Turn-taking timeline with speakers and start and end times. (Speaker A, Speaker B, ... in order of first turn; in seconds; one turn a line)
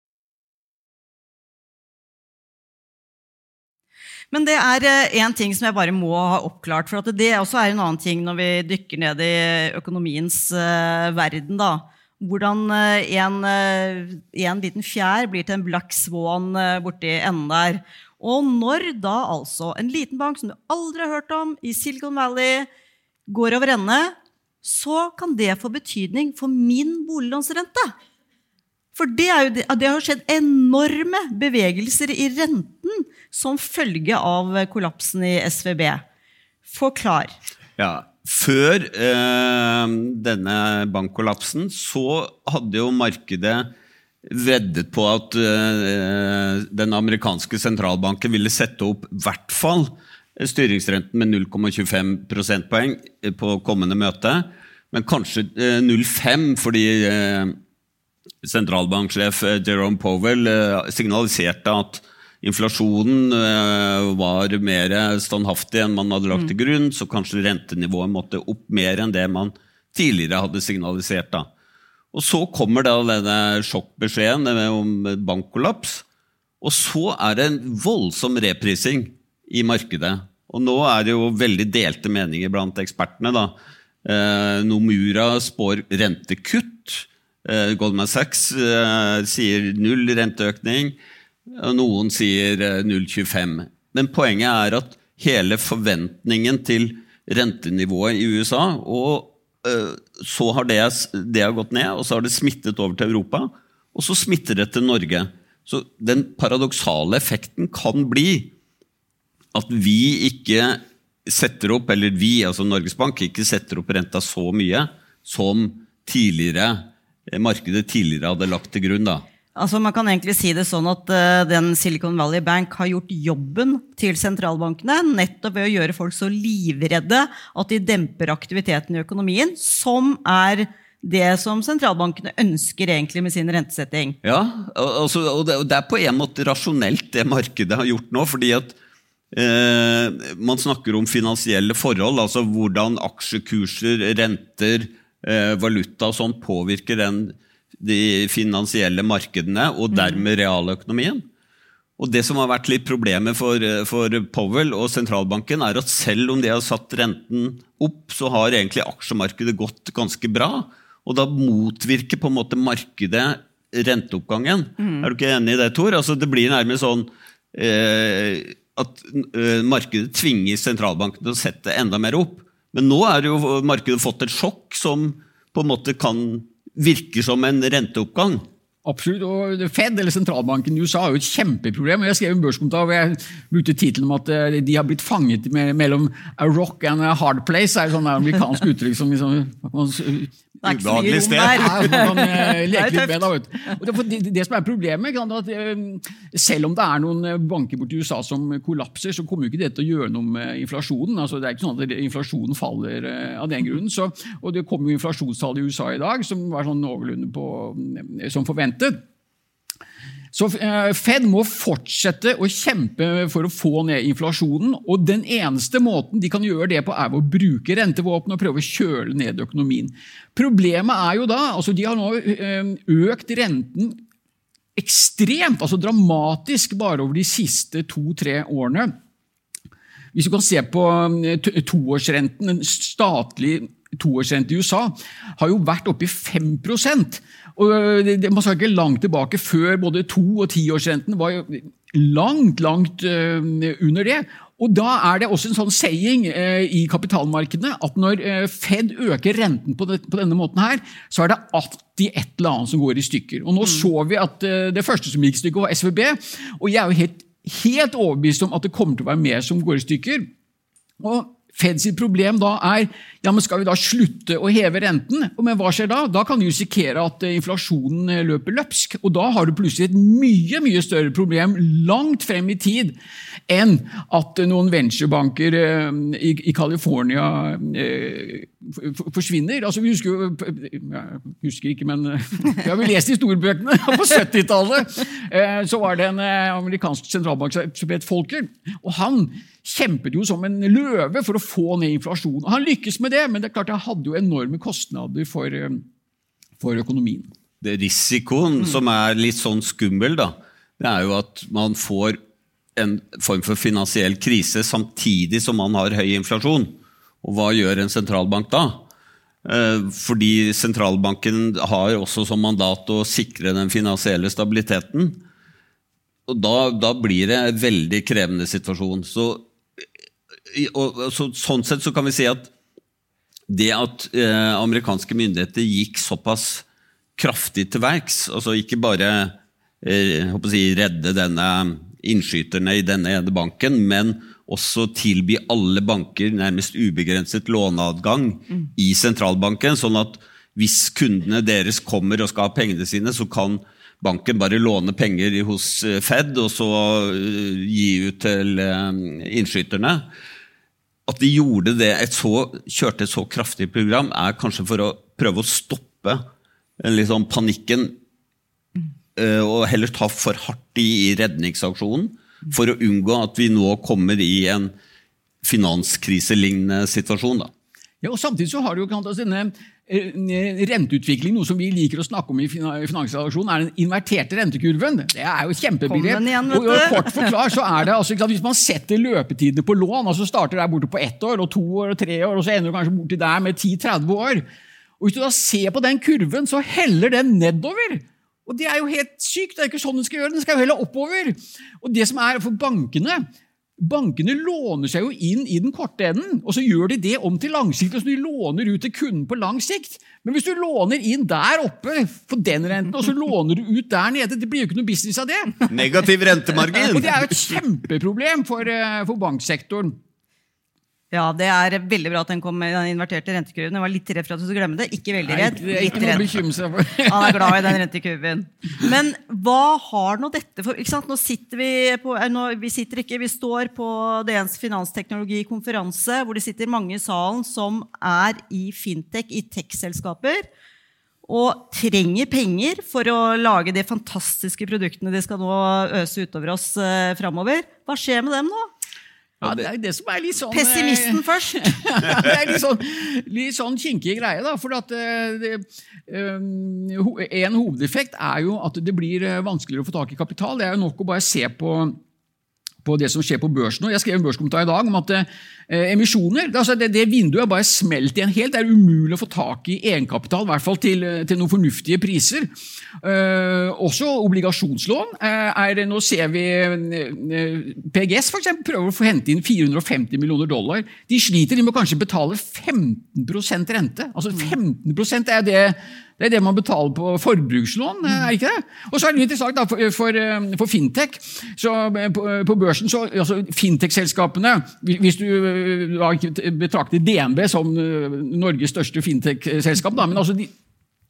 Speaker A: 4.3-22.7
Speaker A: 23.3-27.9
Speaker A: 29.0-36.0
Speaker A: 36.7-37.4
Speaker B: 37.8-43.7
Speaker B: 44.3-57.6
Speaker B: 58.4-71.5
Speaker B: 72.1-76.0
Speaker B: 76.6-91.0
Speaker B: 91.5-108.5
Speaker B: 109.5-119.3
Speaker A: 119.5-134.2
Speaker B: 134.2-138.8
Speaker B: 139.3-151.3
Speaker A: 149.9-150.2
Speaker B: 152.0-178.5
Speaker A: 164.8-165.1
Speaker C: 178.8-190.4
Speaker A: 190.6-193.3
Speaker B: 190.7-192.0
Speaker C: 191.3-209.0
Speaker C: 210.3-224.0
Speaker C: 224.8-228.9
Speaker C: 230.1-260.3
Speaker C: 261.0-273.0
Speaker C: 273.5-295.8
Speaker C: 296.6-297.3
Speaker B: 297.6-302.2
Speaker B: 302.8-308.8
Speaker B: 309.4-315.2
Speaker B: 316.3-319.5
Speaker B: 320.5-322.5
Speaker B: 323.5-326.6
Speaker B: 327.2-350.1
Speaker B: 351.1-356.2
Speaker B: 356.8-358.0
Speaker B: 359.2-364.7
Speaker B: 365.4-367.5
Speaker C: 368.0-384.4
Speaker A: 375.9-377.3
Speaker C: 385.0-393.3
Speaker C: 393.8-405.6
Speaker B: 405.7-407.3
Speaker C: 406.9-410.0
Speaker A: 411.1-416.4
Speaker C: 415.3-417.8
Speaker A: 417.1-430.5
Speaker A: 431.3-438.7
Speaker C: 439.4-452.0
Speaker A: 440.5-441.8
Speaker C: 452.9-462.5
Speaker C: 463.0-490.5